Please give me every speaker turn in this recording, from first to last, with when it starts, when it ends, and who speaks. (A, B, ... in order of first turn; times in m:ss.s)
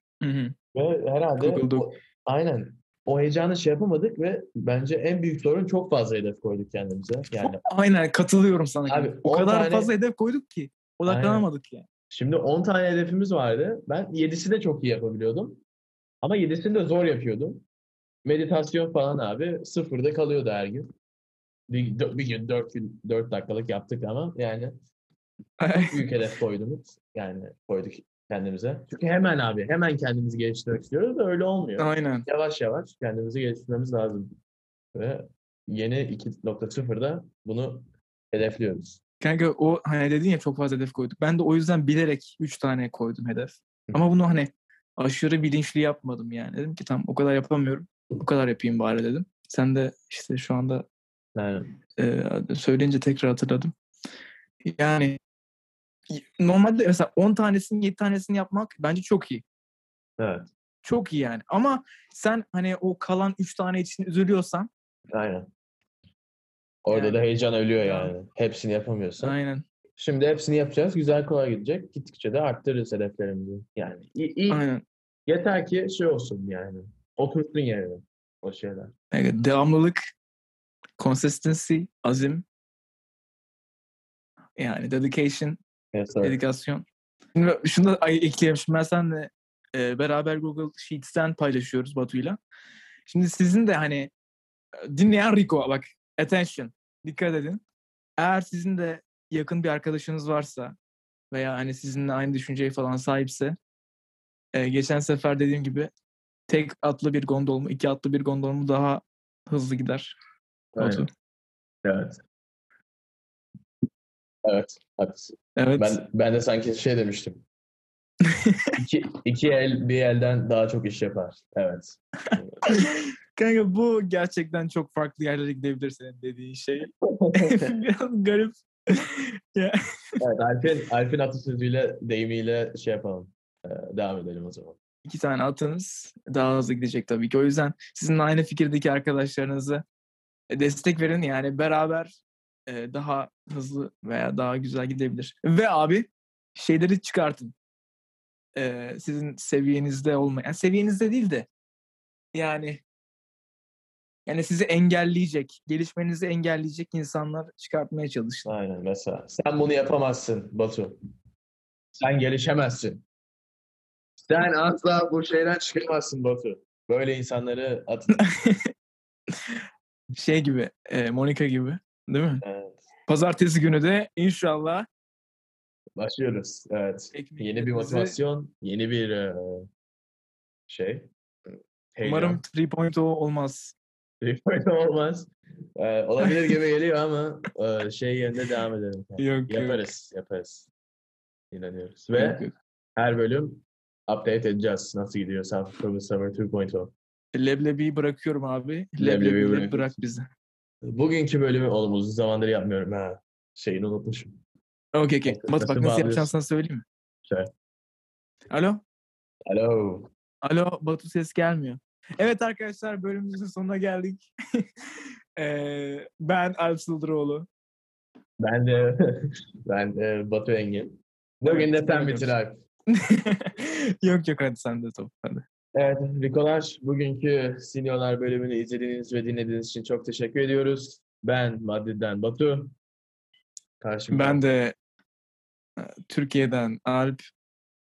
0:00.2-0:00.6 A
0:00.7-0:07.6 B
0:01.4-0:01.9 A
0:07.4-0:11.9 A
0:08.9-0:09.9 B
0:11.1-0:11.5 B
0:12.1-0:15.6 B
0:16.2-0:17.6 B
0:18.2-0:20.9 B
0:21.7-0:24.7 B
0:25.6-0:26.0 A
0:25.8-0:34.3 B
0:31.8-0:32.3 A
0:34.9-0:39.0 B
0:39.2-0:50.9 A
0:51.4-0:51.7 B
0:52.0-0:53.7 A
0:54.7-0:55.2 A
0:56.1-0:59.4 A
1:00.2-1:00.5 B
1:00.8-1:04.7 A
1:05.1-1:05.5 B
1:06.8-1:09.3 B
1:06.9-1:07.2 A
1:07.8-1:08.1 A
1:09.2-1:09.6 A
1:10.0-1:14.6 B
1:14.5-1:14.8 A
1:15.3-1:18.9 B
1:19.1-1:20.0 A
1:21.0-1:22.4 A
1:24.6-1:25.6 A
1:25.9-1:26.4 B
1:26.2-1:32.4 A
1:33.1-1:34.1 A
1:34.9-1:37.6 A
1:38.2-1:40.8 A
1:41.3-1:43.6 A
1:44.6-1:45.9 A
1:46.5-1:50.2 A
1:50.8-1:51.1 B
1:50.8-1:51.1 A
1:51.8-1:52.2 B
1:54.4-1:57.4 B
1:55.6-1:56.0 A
1:58.3-1:58.7 A
1:58.8-2:02.8 B
2:02.7-2:09.8 A
2:07.1-2:07.5 B
2:10.2-2:14.8 B
2:15.1-2:19.8 A
2:20.5-2:27.6 A
2:28.6-2:31.5 A
2:32.4-2:32.8 A
2:34.3-2:38.5 A
2:38.5-2:41.0 B
2:42.0-2:43.0 B
2:44.2-2:48.2 B
2:48.2-2:48.7 A
2:50.2-2:52.4 A
2:52.4-2:52.8 B
2:53.1-2:54.9 A
2:56.0-2:59.7 B
2:57.1-2:58.2 A
3:00.7-3:02.4 B
3:02.0-3:03.8 A
3:04.2-3:10.7 B
3:09.2-3:09.8 A
3:11.5-3:12.4 B
3:12.2-3:12.5 A
3:13.0-3:16.9 B
3:17.3-3:20.3 A
3:19.0-3:20.0 B
3:20.9-3:24.3 B
3:24.9-3:26.8 A
3:25.3-3:26.3 B
3:27.2-3:27.5 B
3:28.5-3:28.8 A
3:29.5-3:30.1 B
3:30.4-3:34.8 A
3:35.4-3:37.5 A
3:38.4-3:42.6 B
3:41.5-3:42.3 A
3:42.9-3:45.4 A
3:45.8-3:52.8 B
3:53.8-3:54.4 B
3:54.1-3:54.8 A
3:55.8-3:57.2 A